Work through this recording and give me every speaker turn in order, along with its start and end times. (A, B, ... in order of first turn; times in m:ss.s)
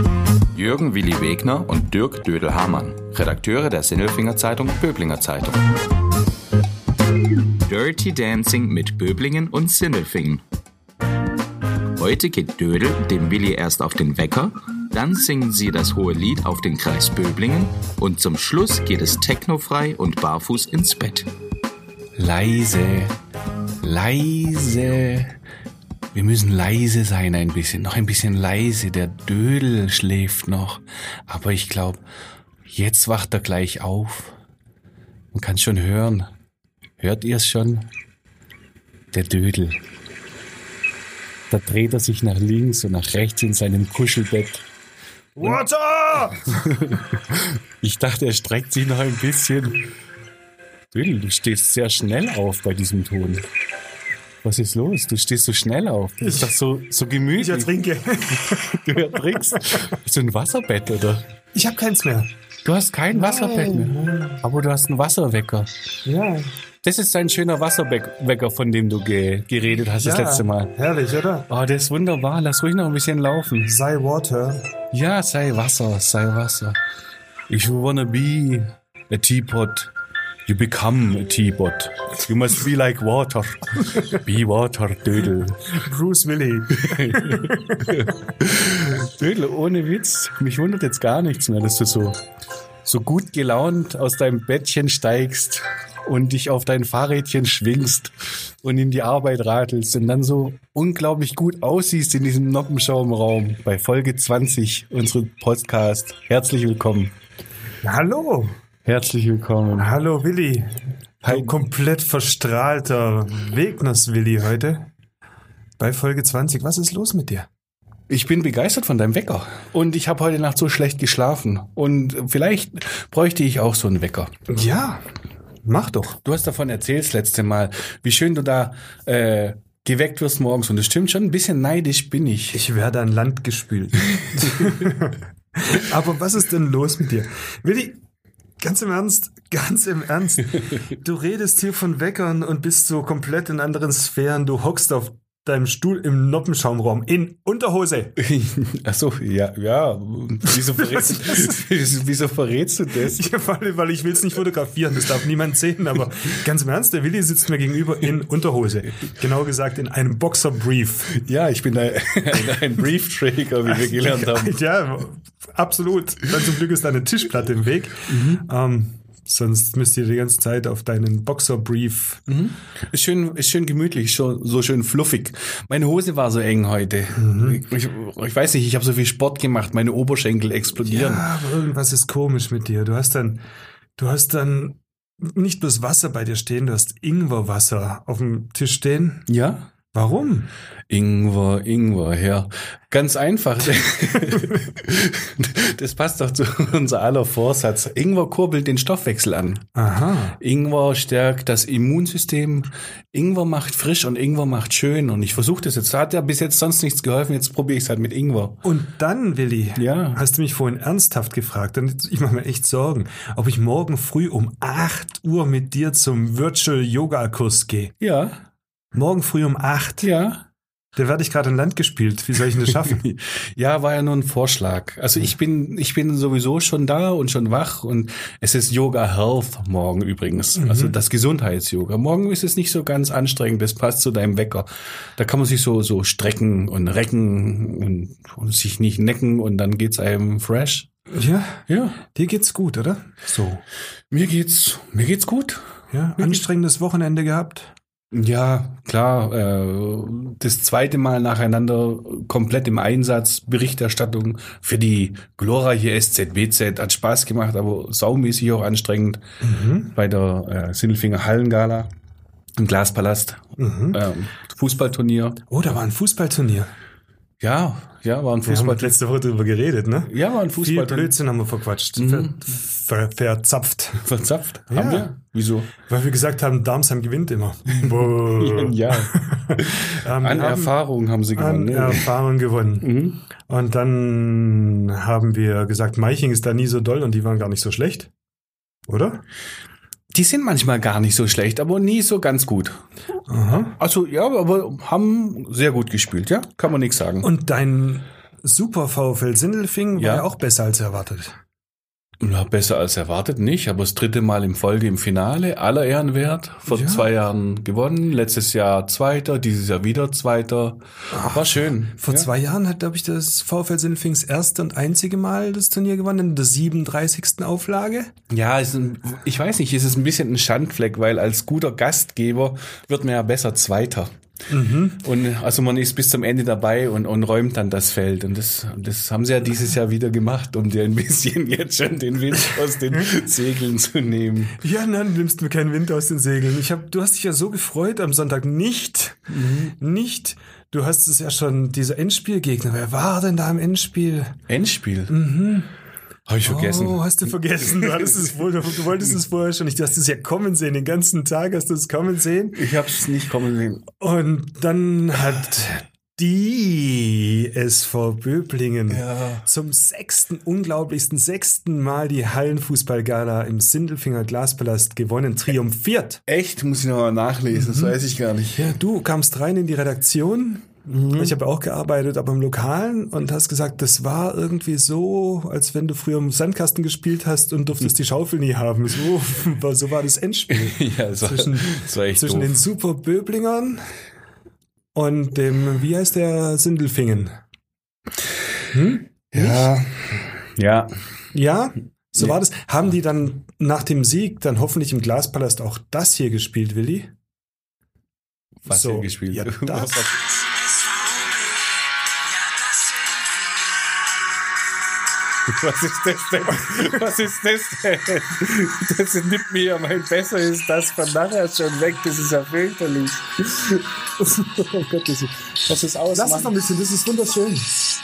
0:00.5-0:05.6 A
0:07.6-0:10.4 A
0:12.0-0:21.3 A
0:22.2-0:23.2 B
0:23.8-0:25.4 B
0:26.1-0:32.0 B
0:32.7-0:34.4 B
0:35.3-0:36.3 B
0:37.0-0:37.9 B
0:39.1-0:39.8 B
0:41.5-0:44.6 B
0:45.4-0:46.6 C
0:46.4-0:49.8 B
0:50.9-0:53.4 B
0:54.4-0:57.9 B
0:56.2-0:56.5 C
0:57.4-0:59.9 C
0:58.6-1:01.2 B
1:01.5-1:02.3 C
1:02.6-1:05.7 B
1:03.1-1:04.4 C
1:06.0-1:06.5 C
1:06.8-1:10.7 B
1:10.0-1:11.5 C
1:11.5-1:13.8 B
1:13.7-1:14.7 C
1:14.9-1:16.8 B
1:17.5-1:19.9 B
1:20.5-1:25.8 B
1:25.7-1:28.2 C
1:26.7-1:32.2 B
1:32.8-1:47.1 B
1:47.8-1:48.6 C
1:48.8-1:49.9 B
1:49.8-1:54.9 C
1:51.2-1:51.5 B
1:55.8-1:57.5 C
1:58.1-2:04.3 B
2:04.5-2:05.0 C
2:05.6-2:06.2 C
2:06.2-2:12.6 B
2:12.5-2:18.0 C
2:14.4-2:14.7 B
2:18.6-2:28.2 C
2:28.2-2:33.3 B
2:30.6-2:31.6 C
2:33.0-2:41.1 C
2:41.1-2:44.6 B
2:43.7-2:52.2 C
2:48.1-2:48.4 B
2:52.3-3:01.3 B
2:57.2-2:57.6 C
3:00.8-3:03.4 C
3:04.0-3:09.3 C
3:09.3-3:09.7 B
3:09.9-3:10.5 C
3:10.9-3:19.7 B
3:19.8-3:20.4 C
3:20.4-3:28.6 B
3:28.6-3:37.9 C
3:29.8-3:30.2 B
3:38.0-3:38.4 B
3:38.9-3:40.1 C
3:40.0-3:40.4 B
3:41.0-3:43.0 C
3:42.7-4:00.9 B
3:50.6-3:51.0 C
4:01.1-4:03.6 C
4:01.7-4:02.0 B
4:04.1-4:05.7 B
4:05.9-4:07.7 C
4:08.1-4:19.2 B
4:19.4-4:19.9 C
4:19.9-4:21.9 B
4:22.6-4:25.4 B
4:23.6-4:24.0 C
4:25.5-4:26.7 C
4:27.4-4:29.0 B
4:28.5-4:34.1 C
4:30.1-4:31.1 B
4:32.0-4:32.4 B
4:34.0-4:35.7 B
4:34.7-4:35.1 C
4:35.8-4:40.8 C
4:37.8-4:42.1 B
4:41.3-4:48.1 C
4:42.8-4:43.2 B
4:48.9-4:49.2 C
4:50.1-4:52.8 B
4:53.3-4:53.8 C
4:53.5-4:57.3 B
4:57.2-5:01.4 C
5:00.0-5:00.3 B
5:02.2-5:12.3 B
5:06.7-5:07.1 C
5:11.1-5:18.1 C
5:18.3-5:24.1 B
5:24.5-5:25.0 C
5:25.0-5:34.6 B
5:34.6-5:44.4 C
5:39.3-5:39.8 B
5:44.5-5:45.2 B
5:45.1-5:45.7 C
5:46.3-5:47.0 B
5:46.4-5:52.7 C
5:47.6-5:48.2 B
5:52.6-5:53.9 B
5:53.9-6:06.2 C
5:58.9-5:59.4 B
6:06.3-6:08.7 B
6:07.5-6:08.0 C
6:08.6-6:23.8 C
6:10.9-6:11.4 B
6:20.5-6:22.6 B
6:25.0-6:27.4 C
6:28.7-6:29.8 C
6:29.3-6:30.9 B
6:31.3-6:37.1 C
6:38.6-6:40.2 B
6:38.7-6:40.1 C
6:45.5-6:56.5 B
6:46.6-6:47.0 C
6:56.2-6:57.8 C